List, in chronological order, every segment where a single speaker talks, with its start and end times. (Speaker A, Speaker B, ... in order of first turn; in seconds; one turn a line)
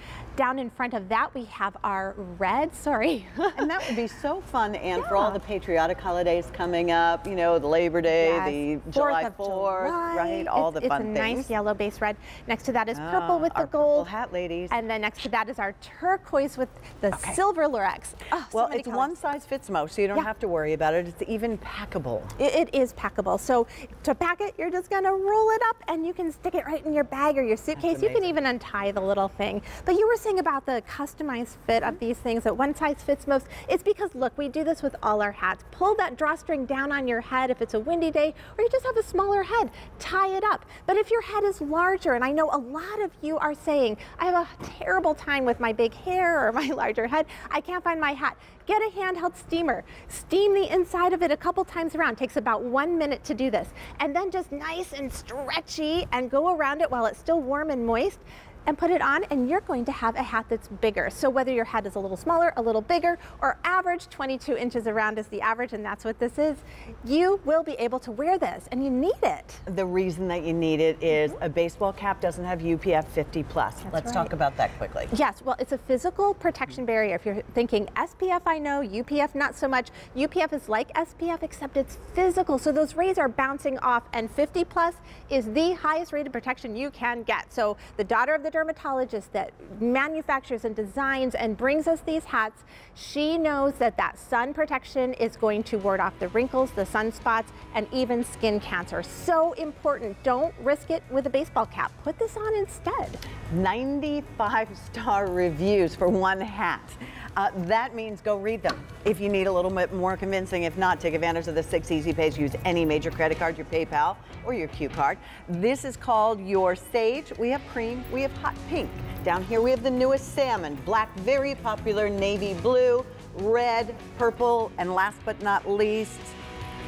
Speaker A: 0.4-3.8
Speaker B: 3.6-11.5
Speaker A: 5.0-5.4
Speaker A: 8.1-14.1
Speaker B: 12.9-14.8
Speaker A: 14.7-19.1
Speaker B: 18.5-22.3
Speaker A: 22.4-69.6
Speaker B: 27.8-28.3
Speaker B: 69.7-75.1
Speaker A: 73.9-74.3
Speaker A: 75.1-103.3
Speaker B: 103.5-126.4